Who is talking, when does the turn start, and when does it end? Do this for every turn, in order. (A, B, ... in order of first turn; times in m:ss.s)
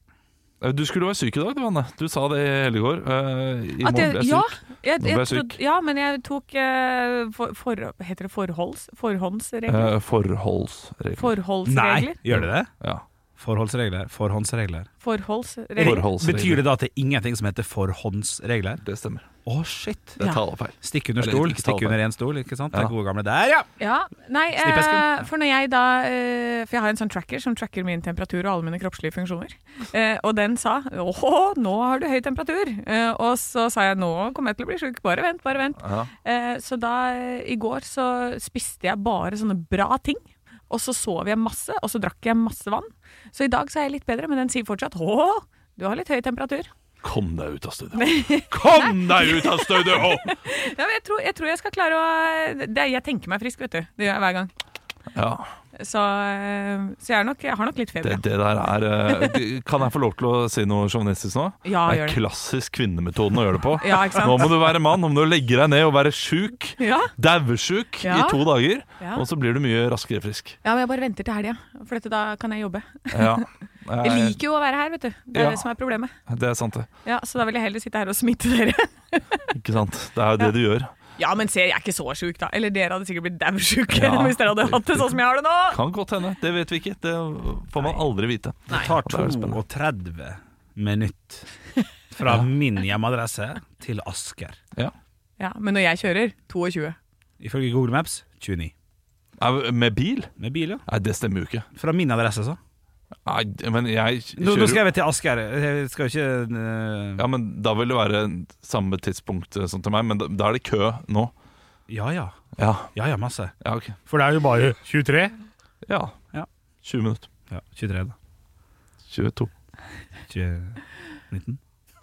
0:00.6-0:05.6 A
0:03.8-0:09.9 B
0:09.7-0:11.3 A
0:11.2-0:12.2 B
0:11.6-0:12.7 C
0:12.3-0:13.0 A
0:13.4-0:14.9 C
0:15.0-0:16.0 B
0:15.8-0:16.6 A
0:15.8-0:18.8 C
0:18.8-0:19.2 A
0:19.4-0:20.2 C
0:20.2-0:22.0 A
0:20.8-0:23.7 C
0:23.8-0:46.7 B
0:24.6-0:25.3 C
0:35.8-0:36.1 A
0:47.0-0:50.3 A
0:48.0-0:54.5 B
0:55.1-0:55.5 A
0:55.7-0:58.2 B
0:58.0-1:10.6 A
1:01.6-1:02.2 B
1:03.8-1:04.5 B
1:06.8-1:07.1 B
1:08.0-1:08.4 B
1:09.0-1:09.2 B
1:10.6-1:13.4 B
1:13.1-1:14.4 A
1:14.0-1:16.1 B
1:15.3-1:15.6 A
1:16.2-1:16.9 A
1:17.0-1:19.5 B
1:19.5-1:20.9 A
1:21.2-1:25.8 B
1:23.9-1:25.1 A
1:25.7-1:29.6 A
1:28.7-1:31.5 C
1:32.1-1:34.6 C
1:35.4-1:37.0 B
1:37.4-1:38.7 C
1:39.4-1:40.3 A
1:40.4-1:40.8 C
1:40.9-1:41.7 A
1:41.8-1:42.6 C
1:43.2-1:44.8 A
1:44.4-1:47.2 C
1:47.2-1:51.3 A
1:51.9-1:52.4 C
1:52.6-1:52.9 A
1:52.9-1:53.5 C
1:53.6-1:54.0 A
1:54.1-1:55.3 C
1:55.8-1:56.1 A
1:56.8-1:57.3 A
1:57.5-1:58.2 C
1:59.1-1:59.5 A
2:00.3-2:00.8 C
2:01.3-2:01.6 C